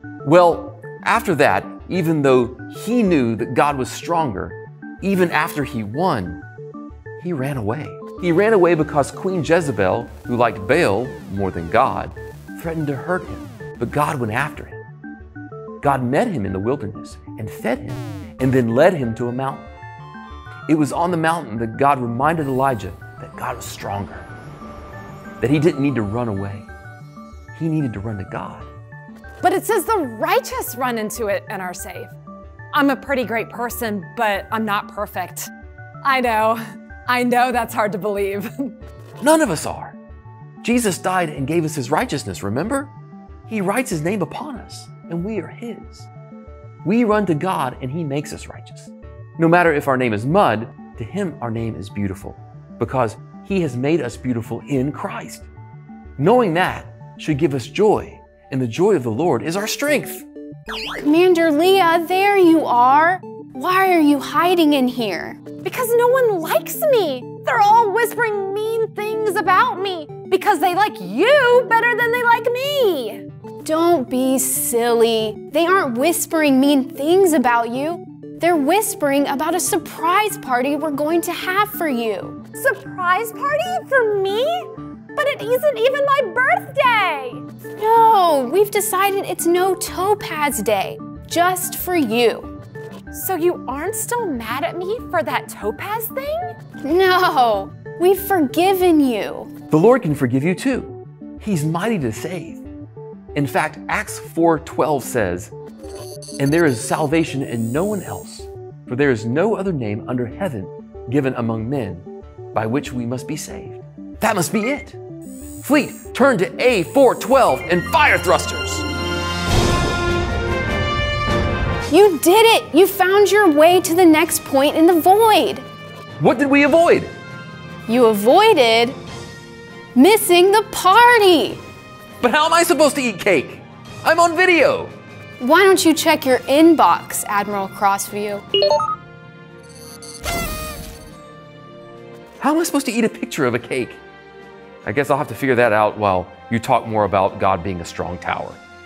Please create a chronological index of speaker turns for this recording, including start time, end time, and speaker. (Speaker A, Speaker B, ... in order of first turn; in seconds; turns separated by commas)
Speaker A: 0.2-6.4, Speaker A: 7.2-14.8, Speaker A: 15.8-19.7, Speaker A: 20.7-24.3, Speaker A: 25.4-26.7, Speaker A: 27.5-28.7, Speaker B: 29.4-32.1, Speaker B: 32.7-35.5, Speaker B: 36.0-38.8, Speaker A: 39.2-40.0, Speaker A: 40.6-42.9, Speaker A: 43.5-46.1, Speaker A: 46.8-55.5, Speaker A: 56.2-60.3, Speaker C: 61.0-65.4, Speaker B: 65.6-73.2, Speaker C: 73.6-82.4, Speaker B: 82.6-87.4, Speaker C: 87.8-92.5, Speaker B: 93.1-96.5, Speaker C: 96.8-99.5, Speaker A: 99.7-102.6, Speaker A: 103.3-105.5, Speaker A: 106.4-115.0, Speaker A: 115.6-118.8, Speaker C: 121.9-125.6, Speaker A: 126.2-127.1, Speaker C: 127.9-129.0, Speaker C: 129.9-131.6, Speaker A: 132.2-134.9, Speaker C: 135.4-138.4, Speaker A: 142.4-144.0, Speaker A: 144.8-148.6